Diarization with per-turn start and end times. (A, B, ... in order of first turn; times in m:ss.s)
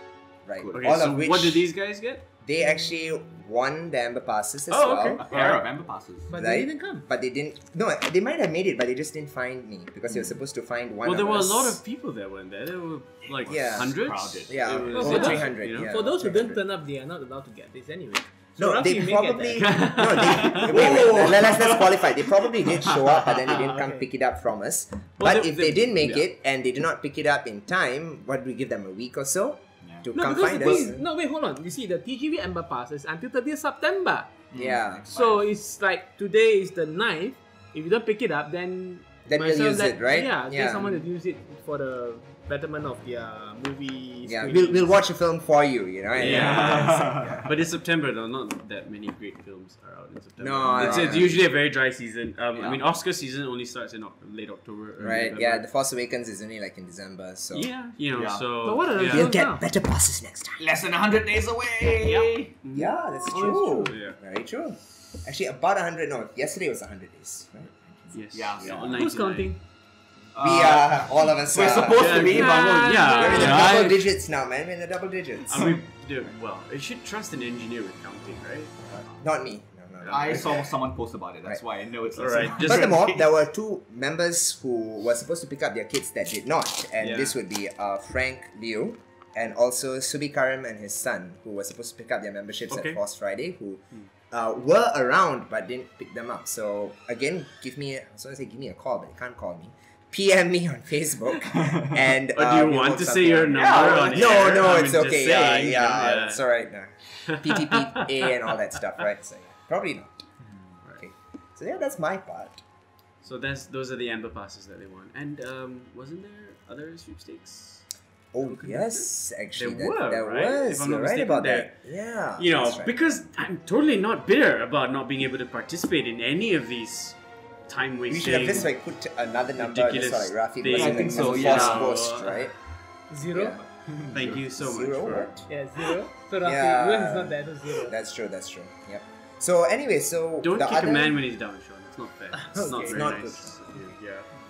0:00.4-0:01.7 A
0:00.6-0:01.0 B
0:00.7-0:02.2 C
0:02.4-0:05.2 A
0:04.7-0:05.6 C
0:05.2-0:06.3 B
0:06.3-0:07.1 D
0:06.3-0:11.8 A
0:11.0-0:15.9 C
0:13.4-0:15.5 B
0:13.4-0:16.6 A
0:14.9-0:19.6 D
0:18.6-0:31.0 A
0:19.5-0:21.9 C
0:20.2-0:22.0 B
0:23.5-0:24.0 D
0:25.2-0:26.3 C
0:29.8-0:30.9 B
0:30.1-0:34.3 D
0:34.5-0:35.5 B
0:34.5-0:35.1 A
0:35.1-0:45.0 D
0:39.3-0:41.0 A
0:44.2-0:47.5 A
0:46.2-0:55.7 C
0:46.2-0:47.4 B
0:50.4-0:51.4 A
0:50.7-0:51.4 B
0:52.6-0:52.8 B
0:55.0-0:55.3 B
0:55.0-0:57.7 A
0:57.5-0:59.4 C
0:58.1-0:58.4 B
0:58.6-0:59.6 D
0:59.0-1:00.6 A
1:00.6-1:02.5 B
1:02.0-1:04.2 C
1:02.7-1:07.7 A
1:03.3-1:03.9 D
1:08.1-1:09.5 B
1:08.1-1:09.6 C
1:10.3-1:13.7 B
1:10.4-1:12.3 A
1:11.7-1:14.1 C
1:12.3-1:13.7 D
1:13.2-1:15.8 A
1:15.4-1:18.7 C
1:15.5-1:16.3 B
1:19.2-1:20.7 A
1:20.0-1:23.3 B
1:22.1-1:23.0 C
1:22.5-1:50.1 A
1:27.0-1:27.3 C
1:32.7-1:33.0 C
1:41.5-1:42.0 B
1:42.3-1:46.4 C
1:43.5-1:44.9 B
1:47.3-1:48.3 C
1:51.0-1:52.6 A
1:53.2-1:57.8 C
1:58.3-2:02.9 A
1:58.4-2:01.7 C
2:02.4-2:08.7 C
2:08.1-2:12.5 A
2:09.6-2:12.5 C
2:10.7-2:12.0 B
2:13.1-2:13.6 D
2:13.3-2:13.6 A
2:13.9-2:14.4 B
2:14.1-2:15.4 C
2:14.6-2:15.5 A
2:15.5-2:17.9 D
2:16.4-2:21.2 A
2:20.4-2:24.3 C
2:22.6-2:23.9 A
2:22.6-2:23.2 B